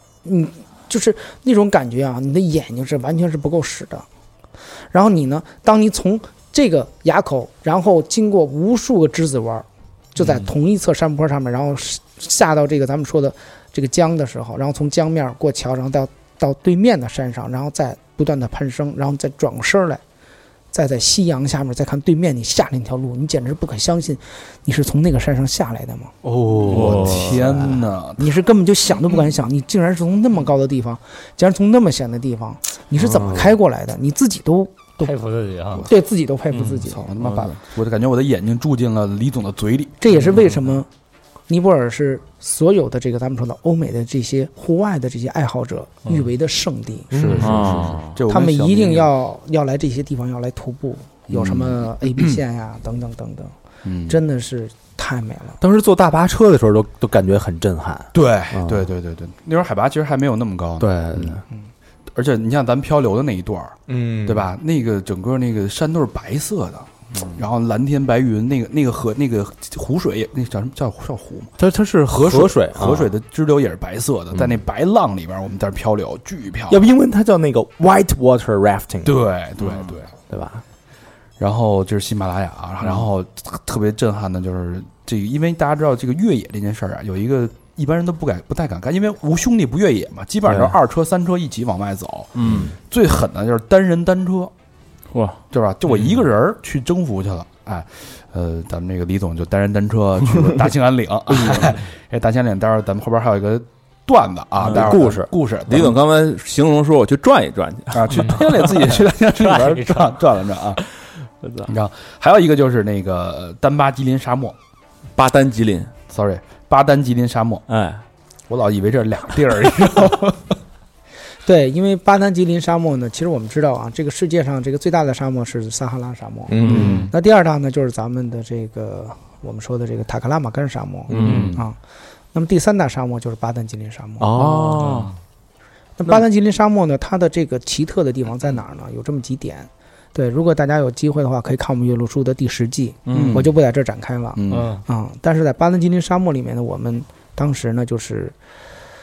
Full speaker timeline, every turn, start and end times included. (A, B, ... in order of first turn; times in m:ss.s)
0:00.2-0:04.1 A
0:04.9-0:20.0 A
0:20.7-0:26.2 A
0:26.2-0:27.8 B
0:26.6-0:28.3 C
0:26.7-0:27.4 D
0:28.2-0:35.2 A
0:33.0-0:33.6 B
0:35.0-0:35.9 E
0:35.8-0:37.2 A
0:36.7-0:40.0 C
0:37.2-0:37.5 D
0:40.0-0:40.9 A
0:41.5-0:47.2 A
0:47.1-0:48.0 B
0:47.1-0:49.1 C
0:47.4-0:48.2 D
0:48.3-0:53.6 A
0:51.3-0:52.4 C
0:53.8-0:54.2 C
0:54.1-0:55.6 A
0:55.6-0:58.9 B
0:58.1-1:01.4 C
1:00.8-1:01.4 B
1:02.2-1:11.5 C
1:03.9-1:04.5 B
1:11.6-1:13.1 B
1:12.1-1:16.8 C
1:16.7-1:19.2 B
1:19.0-1:20.1 C
1:20.3-1:20.6 B
1:21.4-1:34.5 C
1:32.4-1:32.7 D
1:32.4-1:32.7 B
1:35.1-1:36.2 D
1:35.5-1:46.0 C
1:41.3-1:41.8 B
1:44.6-1:45.0 D
1:44.7-1:45.3 B
1:45.7-1:49.0 D
1:47.9-1:50.8 C
1:49.3-1:50.2 E
1:51.4-1:51.7 D
1:51.7-1:54.6 C
1:55.2-1:55.9 D
1:56.1-1:57.7 C
1:57.7-1:58.0 D
1:58.5-2:00.4 C
2:01.4-2:11.8 A
2:06.5-2:07.1 B
2:06.6-2:07.1 D
2:06.6-2:07.0 C
2:11.1-2:11.5 B
2:11.1-2:11.6 D
2:11.3-2:11.6 E
2:12.3-2:14.3 A
2:14.2-2:15.1 B
2:14.4-2:15.1 D
2:14.8-2:15.2 E
2:16.0-2:28.4 A
2:23.1-2:23.4 D
2:23.1-2:23.5 C
2:24.4-2:24.7 C
2:24.5-2:24.8 E